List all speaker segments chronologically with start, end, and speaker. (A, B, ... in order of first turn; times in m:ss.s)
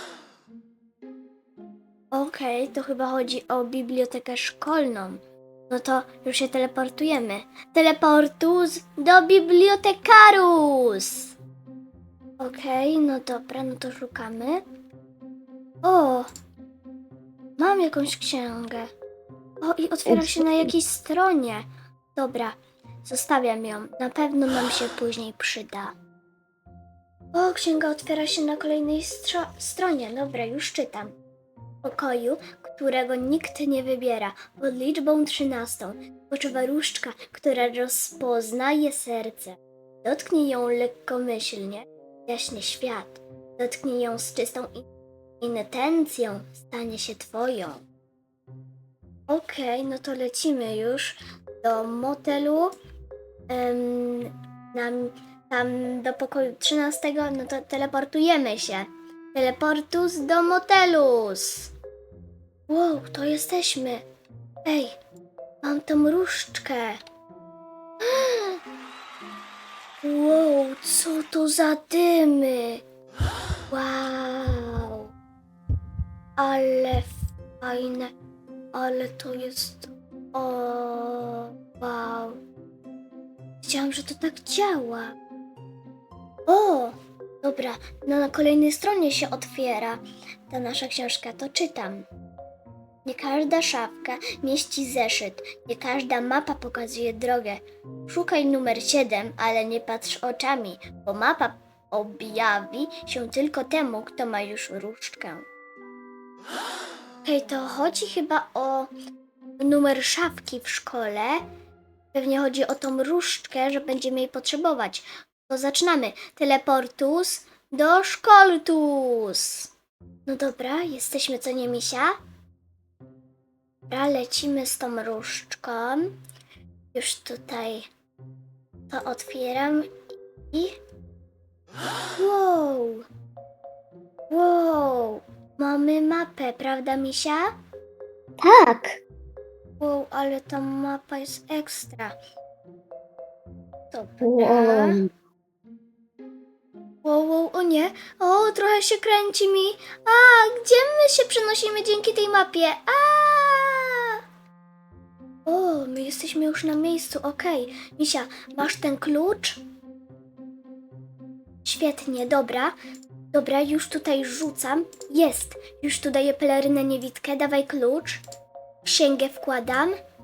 0:02.1-0:11.3 A
0:12.4-0:14.6 A
0:15.8-0:16.3 A
0:17.6-0:18.9 A
0:19.6-0:25.9 A
0:20.1-0:20.7 B
0:27.3-0:31.1 A
0:31.8-0:44.9 A
0:45.4-0:47.8 A
0:49.3-0:52.7 A
0:53.5-1:01.7 A
1:02.7-1:04.0 A
1:04.6-1:05.0 A
1:05.6-1:07.0 A
1:08.0-1:08.6 A
1:10.0-1:12.8 A
1:13.7-1:15.1 A
1:16.4-1:18.1 A
1:18.7-1:22.4 A
1:23.6-1:25.1 A
1:26.5-1:32.0 A
1:33.0-1:45.4 A
1:47.2-1:48.9 A
1:49.6-1:51.4 A
1:52.1-1:59.7 A
2:00.2-2:02.2 A
2:03.9-2:06.1 A
2:06.9-2:07.9 A
2:08.9-2:09.9 A
2:10.5-2:10.8 A
2:12.2-2:13.0 A
2:14.3-2:17.5 A
2:18.4-2:19.0 B
2:19.8-2:22.2 A
2:23.9-2:25.0 A
2:24.2-2:25.1 B
2:27.0-2:34.2 A
2:35.4-2:39.6 A
2:41.6-2:42.8 A
2:43.3-2:48.2 A
2:48.8-2:50.0 A